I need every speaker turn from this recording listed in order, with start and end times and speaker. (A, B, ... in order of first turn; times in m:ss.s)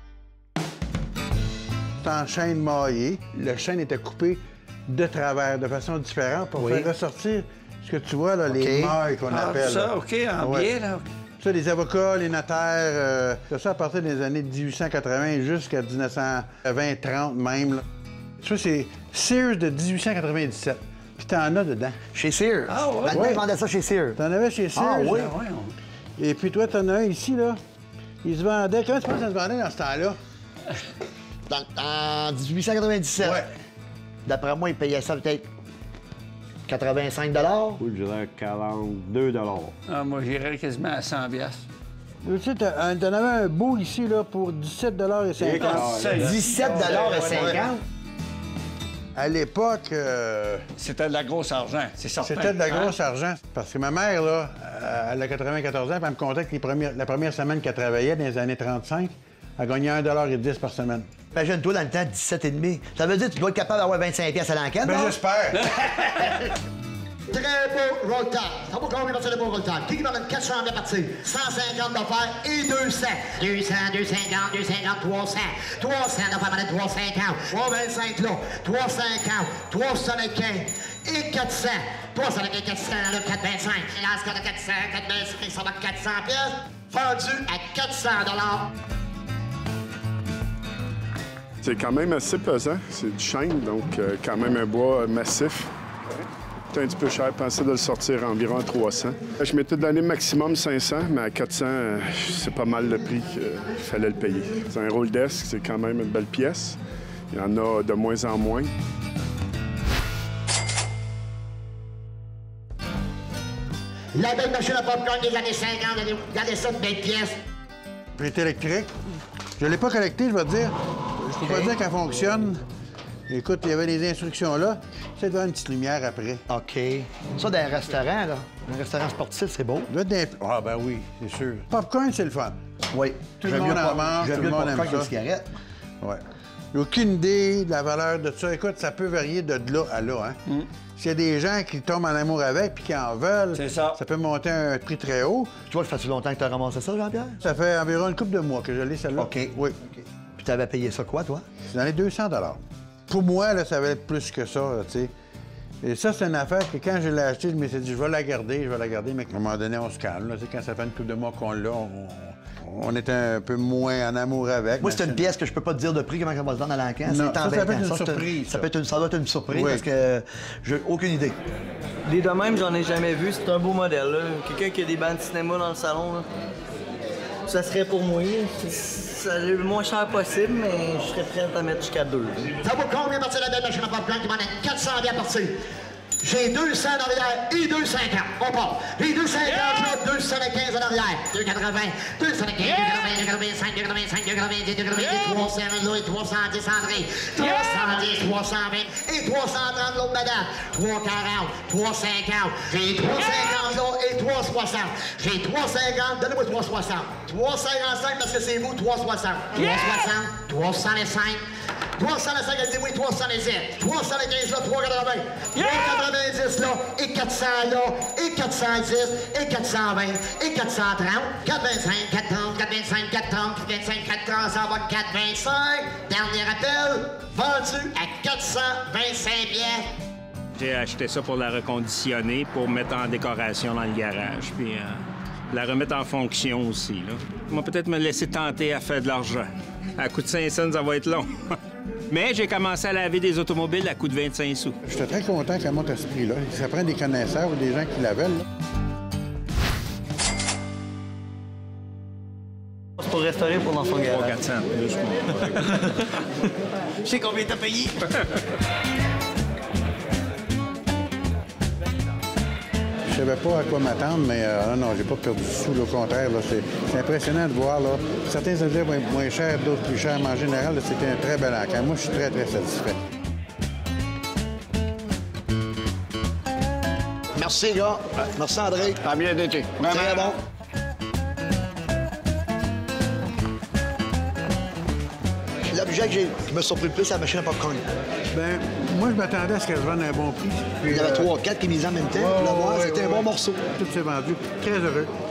0:02.0-0:10.7 A
0:06.6-0:06.9 B
0:08.5-0:09.0 B
0:09.3-0:11.0 C
0:11.4-0:17.8 A
0:18.4-0:22.0 A
0:22.1-0:24.2 B
0:22.7-0:23.3 C
0:23.1-0:23.4 A
0:24.2-0:25.3 A
0:24.7-0:25.3 B
0:25.2-0:25.7 C
0:26.2-0:27.6 A
0:28.2-0:30.2 A
0:31.5-0:33.4 B
0:33.2-0:33.5 A
0:34.2-0:35.4 B
0:36.7-0:37.8 B
0:37.8-0:39.8 D
0:39.9-0:41.6 C
0:42.2-0:46.1 A
0:45.4-0:47.7 C
0:45.7-0:46.2 D
0:46.1-0:47.8 B
0:49.2-0:50.7 A
0:50.8-0:53.0 C
0:52.2-1:01.1 A
1:01.3-1:05.2 B
1:04.8-1:05.7 A
1:07.3-1:28.7 E
1:31.6-1:35.7 F
1:36.7-1:46.8 F
1:47.3-1:48.7 F
1:54.2-1:57.4 E
1:58.2-1:58.9 A
1:59.6-2:02.6 A
2:01.4-2:01.8 B
2:03.3-2:06.4 A
2:06.5-2:09.9 B
2:09.9-2:12.6 A
2:12.9-2:15.5 B
2:13.4-2:15.1 A
2:16.7-2:20.4 A
2:21.0-2:25.5 A
2:23.5-2:24.0 C
2:25.7-2:27.4 B
2:27.4-2:29.8 A
2:29.2-2:31.5 B
2:31.7-2:35.1 A
2:35.8-2:45.3 A
2:44.8-2:51.4 B
2:47.1-2:48.7 A
2:49.5-2:49.8 A
2:52.0-2:56.3 G
2:57.5-3:02.5 G
3:02.6-3:05.6 E
3:06.2-3:31.4 E
3:27.5-3:28.5 B
3:32.0-3:49.8 E
3:35.6-3:35.9 B
3:50.6-3:54.9 H
3:50.6-3:54.8 G
3:55.5-3:59.4 H
3:55.6-3:56.9 G
3:57.6-3:59.4 G
4:00.0-4:01.2 H
4:00.0-4:01.1 G
4:02.1-4:04.7 G
4:02.1-4:04.7 H
4:04.8-4:08.4 A
4:13.0-4:15.9 G
4:17.0-4:18.1 G
4:23.1-4:33.0 A
4:37.4-4:39.0 B
4:39.0-4:40.3 C
4:39.9-4:40.4 B
4:45.7-4:47.8 B
4:48.3-4:51.3 A
4:50.9-4:53.6 B
4:52.1-4:55.1 A